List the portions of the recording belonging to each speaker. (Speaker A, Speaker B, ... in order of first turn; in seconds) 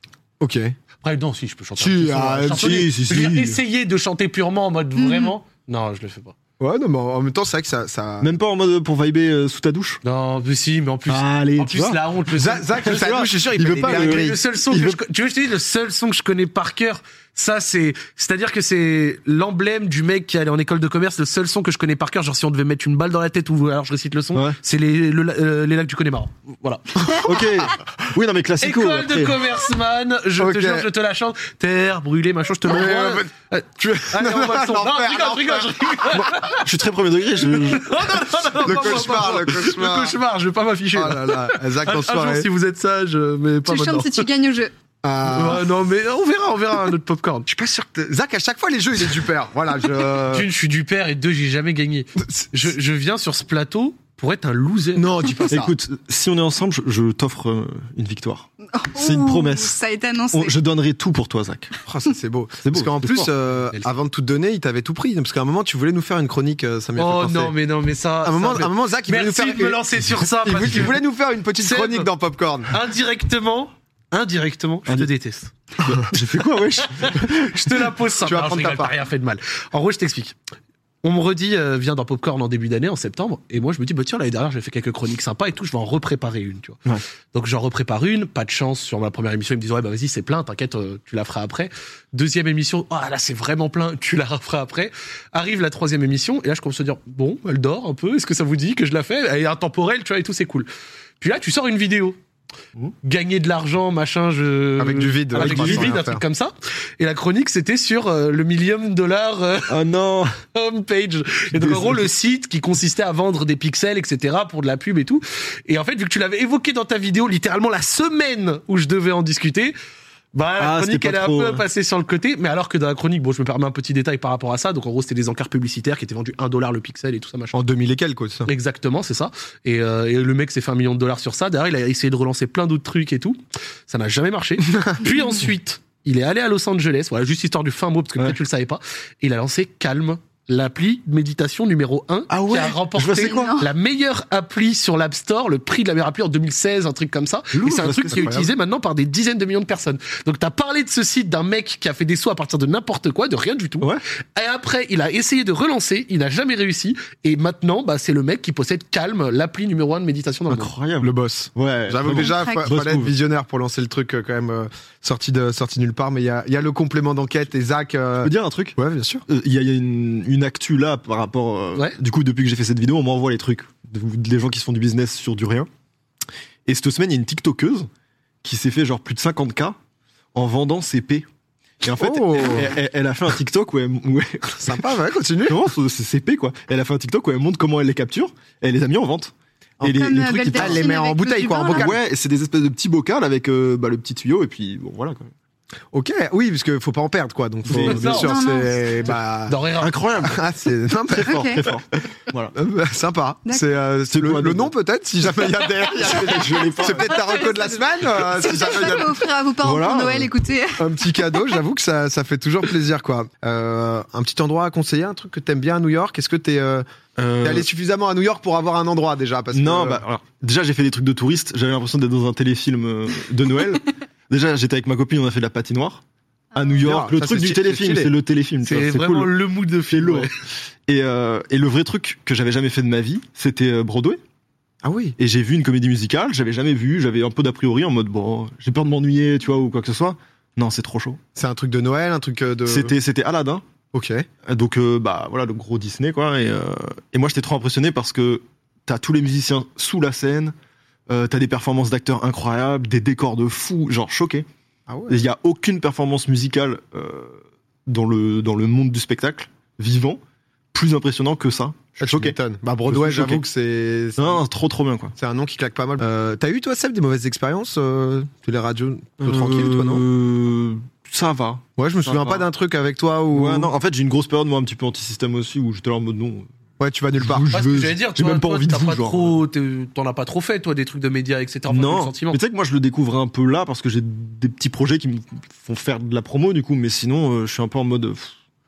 Speaker A: 0.4-0.8, 1.8-2.9, 6.6-8.3, 12.3-14.4, 30.4-30.9, 32.7-36.5, 38.5-40.2, 40.9-42.5, 45.0-45.7, 47.5-50.5, 52.2-52.5, 55.0-55.7, 61.9-67.5, 68.2-72.7, 78.2-79.0, 104.8-106.2, 127.5-128.5, 134.7-135.0, 148.1-148.5, 161.0-169.2, 181.9-182.7, 184.6-185.6, 189.8-192.0, 195.9-199.6, 200.2-201.7, 202.5-209.3, 210.8-216.8, 217.4-220.0, 226.8-228.1, 234.8-235.2, 241.3-242.9, 243.9-244.3, 254.9-255.2, 262.0-264.4, 265.2-270.0, 271.8-273.7, 276.8-277.5
Speaker B: 1.0-6.3, 10.0-27.3, 28.6-36.6, 37.4-44.3, 45.2-47.5, 50.3-55.5, 67.0-71.0, 71.6-72.1, 72.7-75.5, 76.9-80.3, 81.0-86.8, 87.3-100.7, 101.2-102.2, 103.0-109.8, 110.5-119.8, 120.3-127.5, 128.5-160.7, 197.7-198.3, 199.5-200.0, 228.6-230.3, 277.5-282.4
Speaker C: 2.6-3.6, 8.2-10.0, 11.1-12.0, 12.8-15.0, 27.2-29.4, 36.6-38.0, 55.5-59.8, 60.3-61.7, 62.6-63.3, 75.8-77.7, 105.3-106.0, 109.7-110.3, 111.5-112.0, 120.6-121.6, 142.3-143.6, 147.5-148.4, 160.5-163.1, 168.2-175.7, 176.7-177.9, 178.4-179.8, 180.3-181.3, 181.8-184.9, 185.5-190.9, 191.7-195.3, 197.7-198.3, 199.8-200.4, 201.1-202.5, 204.1-204.7, 205.8-207.4, 209.6-210.3, 217.2-217.7, 219.5-226.0, 226.5-234.2, 235.2-241.2, 242.7-243.7, 244.4-250.5, 251.1-254.5, 255.1-260.2, 260.7-263.4, 264.2-265.1, 269.2-272.4, 273.3-276.5, 277.2-279.4, 281.7-288.4
Speaker D: 5.0-5.3, 43.7-44.7, 58.7-60.5, 135.0-135.4, 143.1-143.7, 162.1-162.7, 189.8-191.9, 198.1-198.8, 201.2-201.7, 207.3-207.7, 208.3-210.8, 226.6-226.8